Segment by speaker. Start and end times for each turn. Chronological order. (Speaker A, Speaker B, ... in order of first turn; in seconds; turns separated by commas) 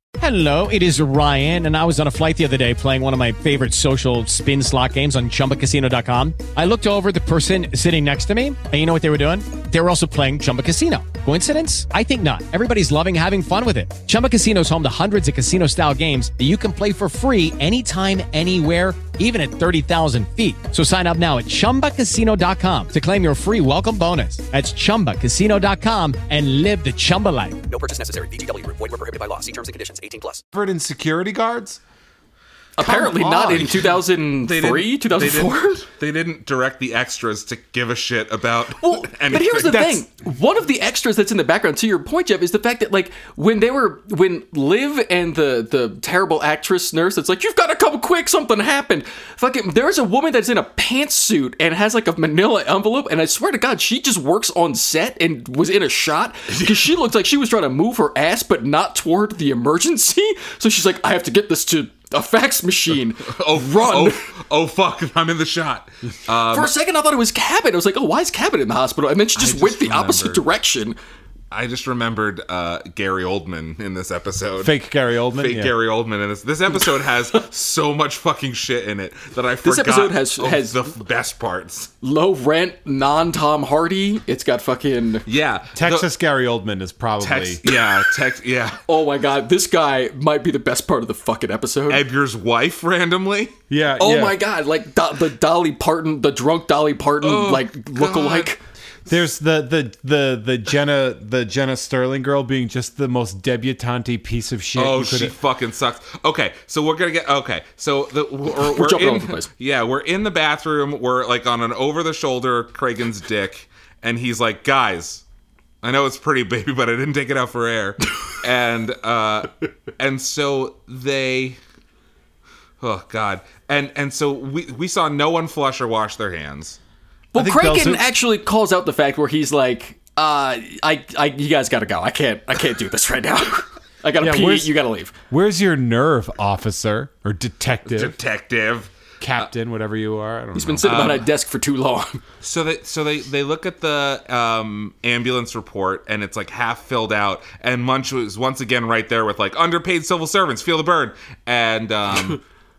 Speaker A: 0.2-27.6, Speaker B: 27.7-30.4, Speaker C: 30.5-31.8, Speaker D: 32.8-35.9, Speaker C: 32.8-33.8, Speaker E: 34.4-39.9, Speaker D: 38.8-64.3, Speaker C: 39.6-40.0, Speaker E: 56.6-56.9, Speaker E: 63.2-66.7, Speaker D: 66.5-71.0, Speaker E: 69.3-70.4, Speaker E: 71.5-74.7, Speaker C: 74.6-75.7, Speaker E: 75.4-81.9, Speaker D: 79.6-80.8, Speaker D: 82.0-85.2, Speaker E: 85.2-86.1, Speaker C: 85.7-87.6, Speaker E: 87.2-88.8, Speaker D: 88.9-92.0, Speaker E: 91.9-93.5, Speaker C: 93.7-94.4, Speaker D: 94.0-98.6, Speaker E: 97.2-98.5, Speaker C: 99.0-105.3, Speaker E: 104.7-115.2, Speaker D: 108.6-109.5, Speaker E: 115.8-121.6, Speaker E: 122.8-126.8, Speaker D: 127.3-135.1, Speaker C: 127.3-128.1, Speaker C: 134.2-134.7, Speaker C: 135.3-138.2, Speaker E: 137.9-139.4, Speaker C: 139.2-140.9, Speaker D: 140.5-142.2, Speaker E: 140.8-141.3, Speaker E: 142.4-152.4